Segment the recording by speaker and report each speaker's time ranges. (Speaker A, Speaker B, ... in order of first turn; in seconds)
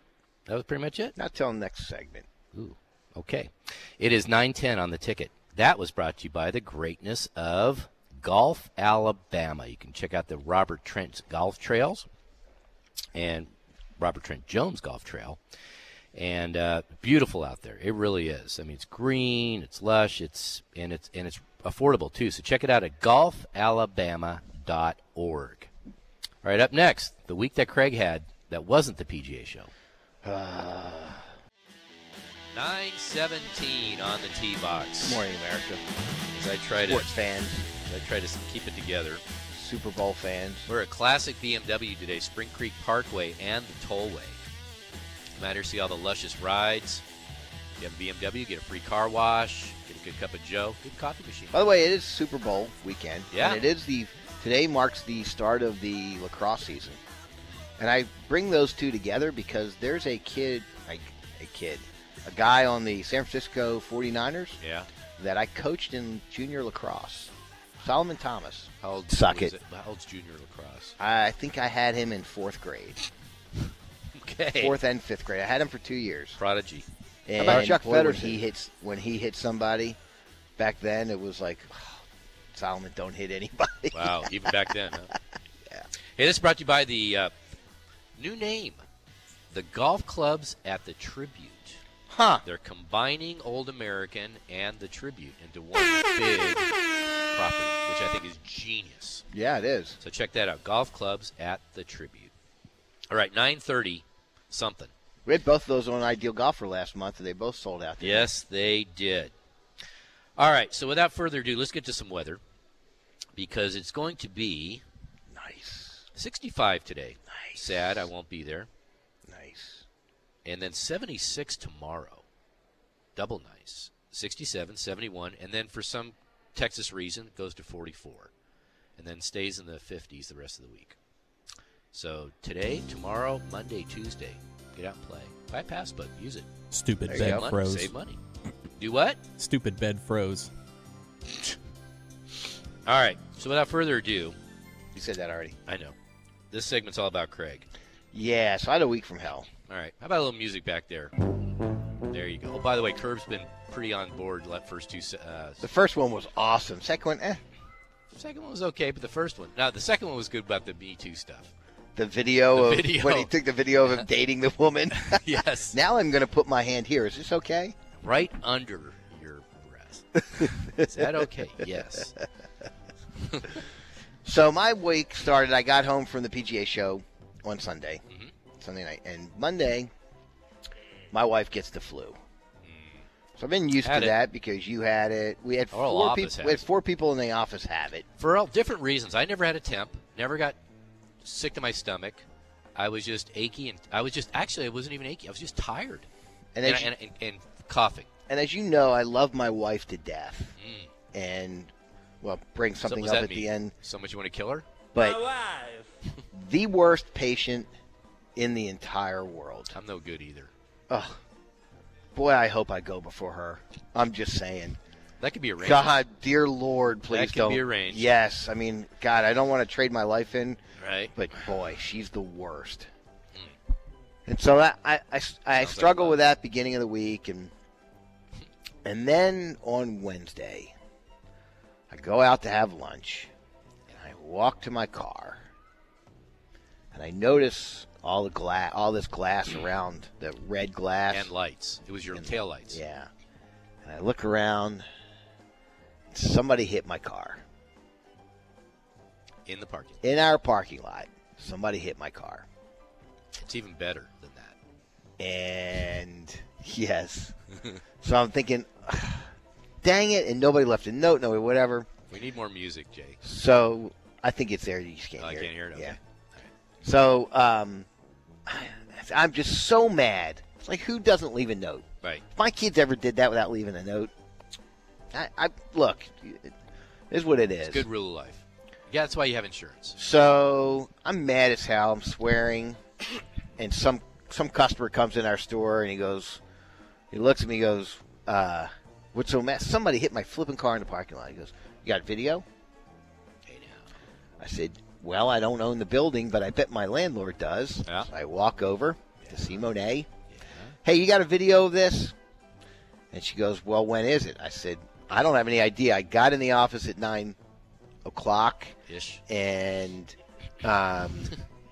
Speaker A: 0.5-1.1, 2.5-12.1, 13.2-15.4, 16.1-25.7, 26.4-29.7, 32.5-35.2, 36.3-37.1, 37.8-39.2, 40.7-44.4, 45.4-47.0, 47.8-51.6, 53.3-53.6, 64.6-64.9, 68.8-71.0, 74.2-74.8, 76.4-76.9, 77.4-78.4, 83.9-85.1, 86.2-87.3, 88.2-88.8, 89.5-91.8, 92.4-96.7, 97.3-99.2, 100.0-102.3, 103.1-104.9, 108.0-109.3, 110.4-112.4, 113.4-114.8, 116.2-118.7, 120.5-122.2, 123.2-128.3, 129.0-131.0, 131.9-136.5, 137.1-138.2, 138.8-139.2, 142.9-144.4, 145.7-145.9, 146.5-147.7, 149.7-151.1, 152.1-155.6, 158.1-161.5, 162.5-163.3, 165.0-165.8, 168.0-172.2, 173.3-173.6, 182.7-183.0, 183.8-184.2, 185.7-186.7, 188.2-190.6, 191.2-196.1, 196.6-198.1, 200.6-200.9, 202.8-204.7, 209.7-210.5, 215.2-215.9, 217.1-218.1, 220.8-221.1, 225.6-226.2, 241.1-242.8, 249.5-250.0, 253.4-254.6, 262.1-263.2, 265.2-266.5, 277.6-280.0, 293.5-293.9, 299.2-299.6, 300.3-300.8, 308.9-309.2
Speaker B: 1.2-2.3, 30.2-31.3, 35.0-35.8, 36.8-37.7, 39.5-40.7, 51.5-57.0, 57.8-64.6, 65.2-69.5, 71.0-73.0, 74.6-76.4, 77.3-80.0, 80.6-84.5, 92.1-92.4, 99.3-100.0, 105.2-108.3, 115.3-116.0, 117.4-118.0, 119.3-119.8, 137.1-137.5, 144.9-145.6, 148.1-149.5, 155.6-157.4, 162.0-167.8, 170.3-171.2, 174.2-178.0, 178.6-179.9, 181.1-182.2, 183.4-188.1, 196.6-196.9, 198.3-200.6, 201.1-203.7, 204.9-205.6, 206.3-207.7, 208.4-209.8, 210.9-211.2, 212.2-214.8, 215.6-220.6, 221.1-222.9, 224.3-227.5, 228.8-230.7, 231.9-233.3, 233.9-235.4, 236.9-241.3, 242.1-243.1, 243.8-244.8, 246.1-247.4, 250.0-252.5, 255.2-257.4, 258.0-259.3, 259.8-261.9, 263.2-266.0, 266.8-267.9, 268.5-274.1, 275.1-276.5, 277.1-277.9, 280.0-282.8, 283.6-286.4, 287.1-292.5, 294.4-300.1, 300.8-302.1, 303.1-307.4, 308.1-308.8, 309.3-311.3
Speaker C: 136.7-137.9, 139.4-140.5